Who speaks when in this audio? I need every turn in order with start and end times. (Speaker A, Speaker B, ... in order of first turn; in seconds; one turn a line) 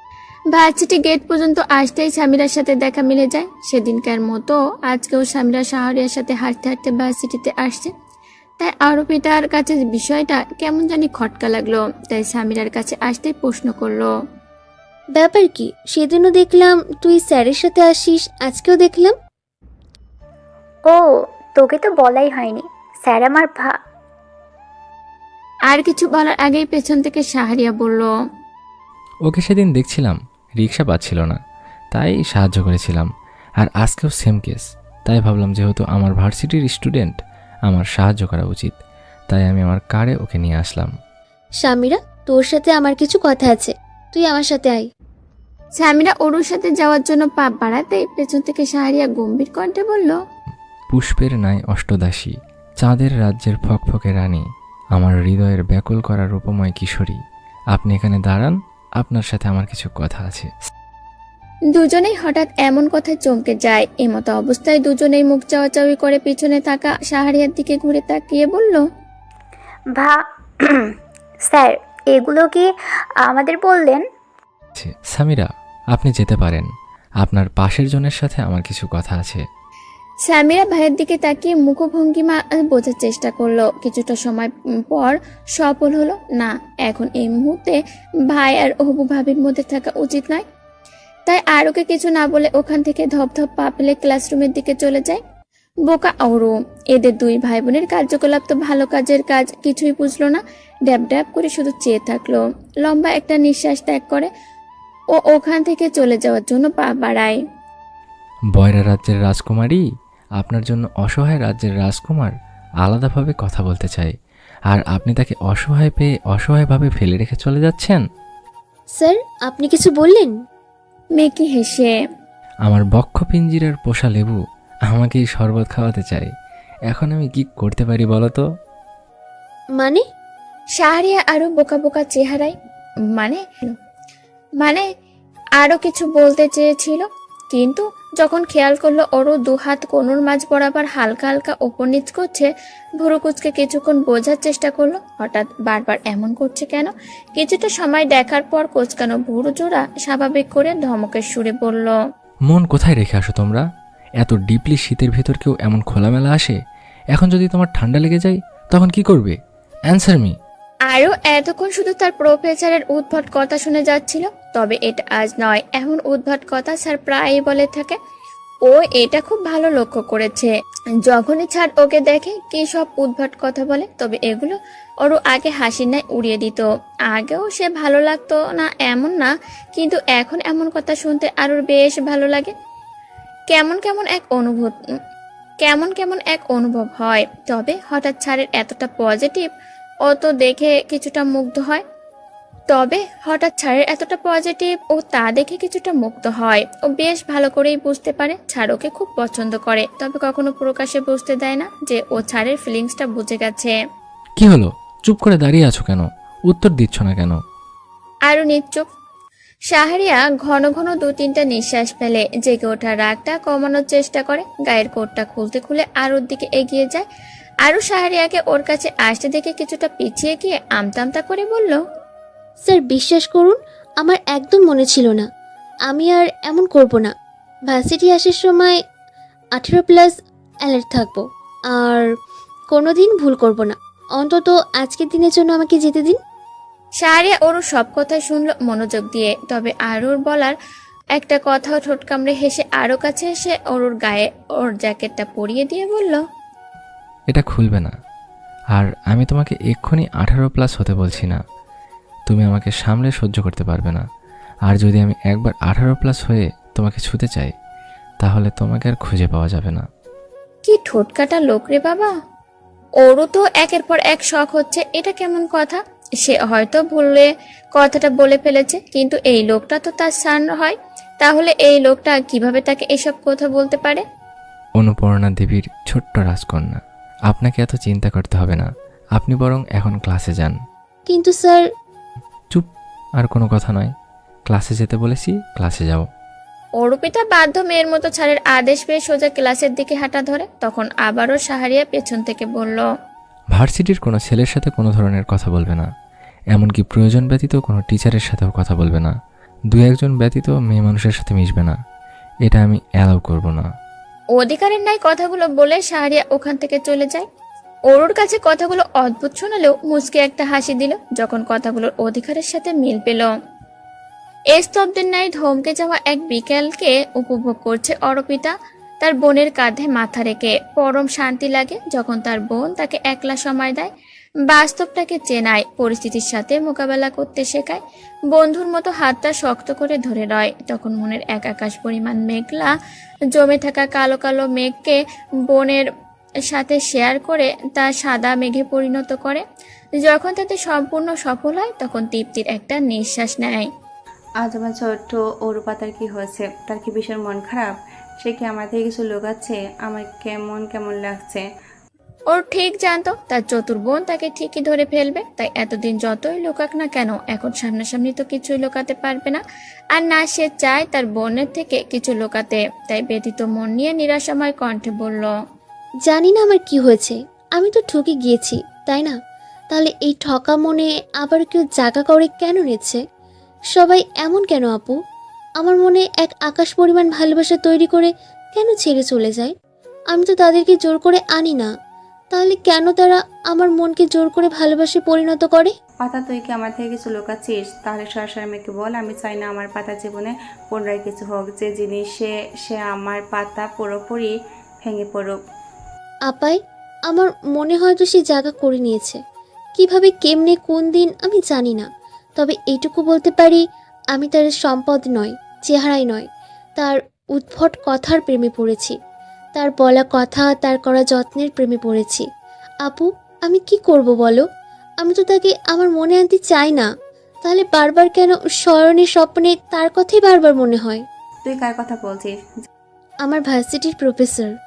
Speaker A: 0.5-7.9
Speaker A: 8.6-14.1
Speaker B: 15.2-19.1
Speaker C: 20.8-23.8
Speaker A: 25.7-28.1
Speaker D: 29.2-31.4
Speaker D: 31.9-33.1
Speaker D: 33.6-37.1
Speaker D: 37.7-38.7
Speaker D: 39.3-40.9
Speaker B: 41.6-44.9
Speaker A: 45.8-50.1
Speaker D: 50.9-54.4
Speaker D: 54.9-57.2
Speaker D: 57.7-60.5
Speaker A: 61.7-68.8
Speaker C: 69.9-70.9
Speaker C: 71.5-72.7
Speaker C: 73.2-74.0
Speaker D: 74.7-76.7
Speaker D: 77.2-79.4
Speaker A: 80.3-87.8
Speaker A: 88.3-90.4
Speaker A: 91.3-95.2
Speaker A: 95.9-104.3
Speaker A: 105.2-107.4
Speaker D: 108.6-109.8
Speaker D: 110.4-114.1
Speaker D: 114.7-118.0
Speaker B: 119.0-120.3
Speaker A: 121.2-121.9
Speaker D: 122.7-126.3
Speaker D: 126.9-128.4
Speaker B: 129.8-130.0
Speaker A: 130.8-132.5
Speaker A: 133.2-133.7
Speaker A: 135.6-142.5
Speaker A: 143.0-151.9
Speaker D: 152.5-153.6
Speaker D: 154.2-156.6
Speaker D: 157.1-159.4
Speaker D: 159.9-160.3
Speaker A: 160.9-168.0
Speaker A: 168.7-170.5
Speaker A: 171.1-182.5
Speaker A: 183.5-184.8
Speaker A: 185.6-189.5
Speaker A: 190.1-191.8
Speaker A: 192.7-203.7
Speaker D: 204.4-207.4
Speaker A: 208.3-208.9
Speaker A: 209.7-217.1
Speaker A: 217.7-221.8
Speaker B: 222.7-225.3
Speaker B: 225.9-227.1
Speaker B: 227.7-228.8
Speaker B: 229.6-230.1
Speaker B: 230.6-231.2
Speaker B: 231.8-232.0
Speaker B: 232.7-236.2
Speaker A: 237.0-240.5
Speaker A: 241.2-246.2
Speaker D: 247.3-247.9
Speaker D: 248.7-251.4
Speaker D: 252.3-254.0
Speaker D: 254.7-257.5
Speaker D: 258.2-259.9
Speaker A: 260.7-262.1
Speaker A: 263.0-274.0
Speaker D: 274.8-280.6
Speaker B: 281.1-281.6
Speaker D: 283.2-283.9
Speaker D: 284.5-286.0
Speaker A: 286.8-292.8
Speaker D: 293.5-295.9
Speaker D: 296.5-299.1
Speaker D: 299.7-301.8
Speaker D: 302.4-303.6
Speaker A: 304.4-307.2
Speaker A: 307.9-313.3
Speaker A: 314.5-323.9
Speaker A: 324.5-327.8
Speaker A: 328.3-332.7
Speaker A: 333.3-335.0
Speaker A: 335.5-335.9
Speaker A: 336.5-339.4
Speaker A: 340.0-343.7
Speaker E: 344.4-351.4
Speaker A: 352.3-359.4
Speaker A: 359.9-365.3
Speaker B: 366.1-369.1
Speaker B: 369.7-373.0
Speaker B: 373.7-374.9
Speaker B: 375.6-379.5
Speaker B: 380.1-381.7
Speaker B: 382.3-385.7
Speaker E: 386.0-394.3
Speaker E: 394.8-395.4
Speaker B: 396.3-396.6
Speaker B: 397.1-399.2
Speaker B: 399.8-401.9
Speaker B: 402.4-403.6
Speaker B: 404.1-406.2
Speaker B: 406.8-408.9
Speaker B: 409.6-412.2
Speaker B: 412.8-414.4
Speaker B: 415.0-416.9
Speaker B: 417.4-421.0
Speaker E: 421.4-422.4
Speaker B: 423.2-424.5